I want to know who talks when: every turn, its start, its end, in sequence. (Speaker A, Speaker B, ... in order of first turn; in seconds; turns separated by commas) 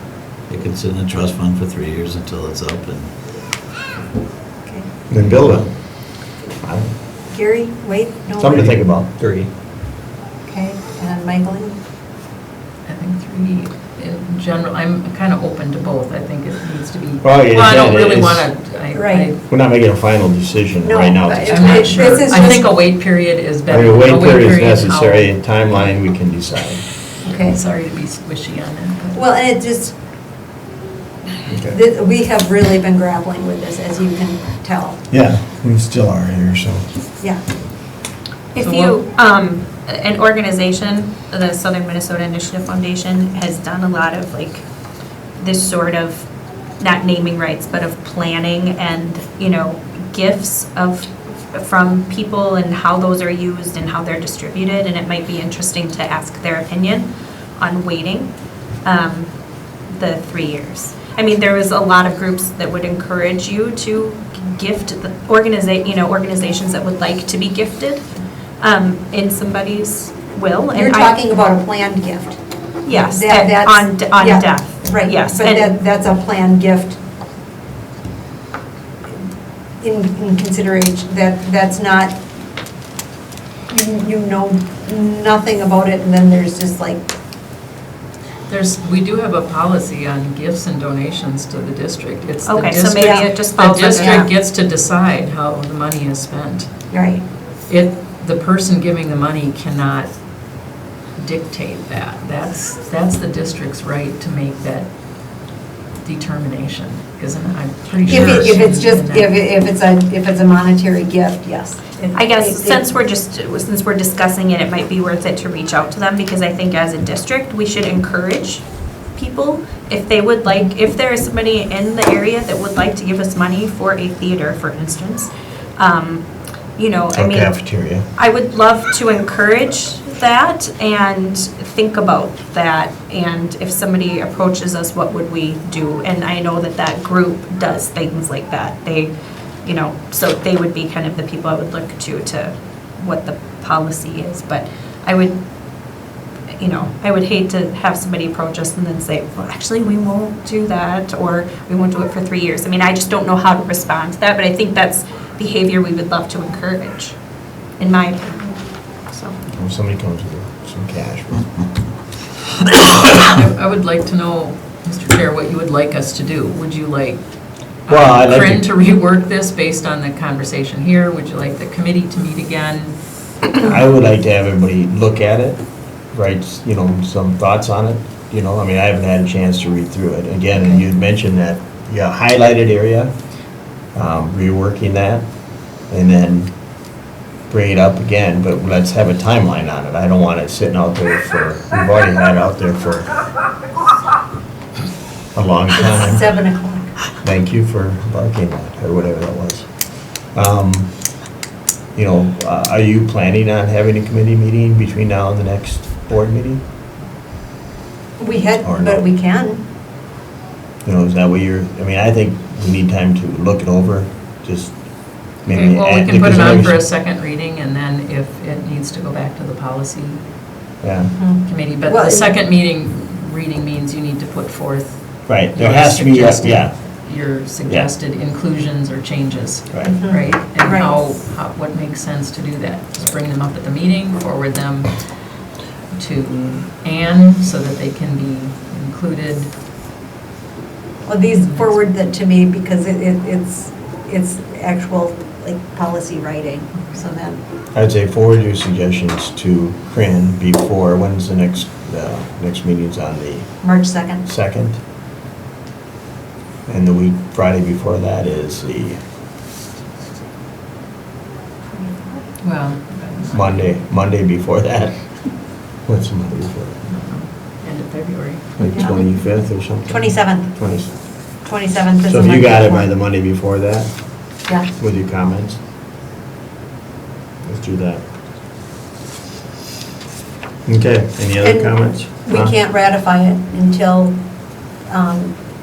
Speaker A: 0.5-3.1, Speaker B: 5.1-5.7, Speaker A: 5.2-5.7, Speaker B: 6.6-6.9, Speaker C: 7.3-8.8, Speaker B: 8.4-9.1, Speaker A: 9.2-9.5, Speaker C: 10.4-11.8, Speaker D: 12.8-19.4, Speaker B: 17.2-18.4, Speaker C: 18.9-19.3, Speaker B: 19.5-22.1, Speaker C: 20.8-22.6, Speaker D: 21.5-25.3, Speaker B: 23.7-26.8, Speaker C: 27.2-27.6, Speaker D: 27.5-29.2, Speaker C: 29.1-29.9, Speaker B: 31.5-31.8, Speaker C: 31.6-35.0, Speaker B: 35.1-36.9, Speaker E: 38.5-44.6, Speaker D: 38.6-39.0, Speaker E: 45.4-46.3, Speaker E: 46.8-58.3, Speaker E: 58.8-59.3, Speaker E: 59.9-68.1, Speaker E: 68.6-71.2, Speaker C: 70.7-72.4, Speaker E: 72.8-75.7, Speaker C: 72.9-77.0, Speaker C: 79.8-82.2, Speaker C: 83.7-87.1, Speaker D: 88.5-96.7, Speaker E: 92.4-94.3, Speaker C: 93.0-93.3, Speaker C: 94.0-94.3, Speaker C: 96.9-97.2, Speaker D: 97.7-100.1, Speaker D: 101.2-104.9, Speaker D: 106.0-109.3, Speaker C: 108.1-112.9, Speaker E: 112.1-118.6, Speaker E: 119.2-127.6, Speaker B: 127.2-128.1, Speaker E: 128.1-139.1, Speaker E: 139.6-145.4, Speaker E: 146.6-157.2, Speaker E: 157.8-159.4, Speaker B: 159.5-161.5, Speaker D: 162.7-167.2, Speaker D: 167.8-172.9, Speaker B: 167.9-168.7, Speaker B: 173.5-183.1, Speaker D: 180.6-180.8, Speaker B: 183.9-185.2, Speaker B: 185.9-186.5, Speaker B: 187.5-193.1, Speaker B: 195.3-196.3, Speaker C: 195.8-196.9, Speaker B: 197.2-199.7, Speaker B: 200.3-200.9, Speaker B: 201.9-206.6, Speaker C: 208.2-209.6, Speaker B: 208.6-209.0, Speaker B: 210.8-214.8, Speaker B: 215.4-216.8, Speaker D: 215.5-220.2, Speaker B: 220.8-221.1, Speaker C: 221.2-222.3, Speaker D: 221.5-234.9, Speaker B: 225.3-226.8, Speaker C: 229.8-230.9, Speaker D: 235.9-239.5, Speaker C: 241.0-247.4, Speaker D: 241.4-241.7, Speaker B: 247.7-253.5, Speaker C: 253.6-254.2, Speaker B: 254.2-254.8, Speaker B: 256.7-259.0, Speaker C: 261.7-262.2, Speaker D: 262.4-263.8, Speaker B: 263.3-265.0, Speaker B: 265.8-266.8, Speaker D: 266.8-268.4, Speaker B: 268.6-270.9, Speaker C: 268.7-269.2, Speaker C: 269.9-270.6, Speaker C: 271.4-272.9, Speaker B: 272.1-273.9, Speaker B: 274.8-275.6, Speaker B: 277.4-278.0, Speaker B: 280.6-282.6, Speaker C: 281.4-284.2, Speaker C: 284.9-285.4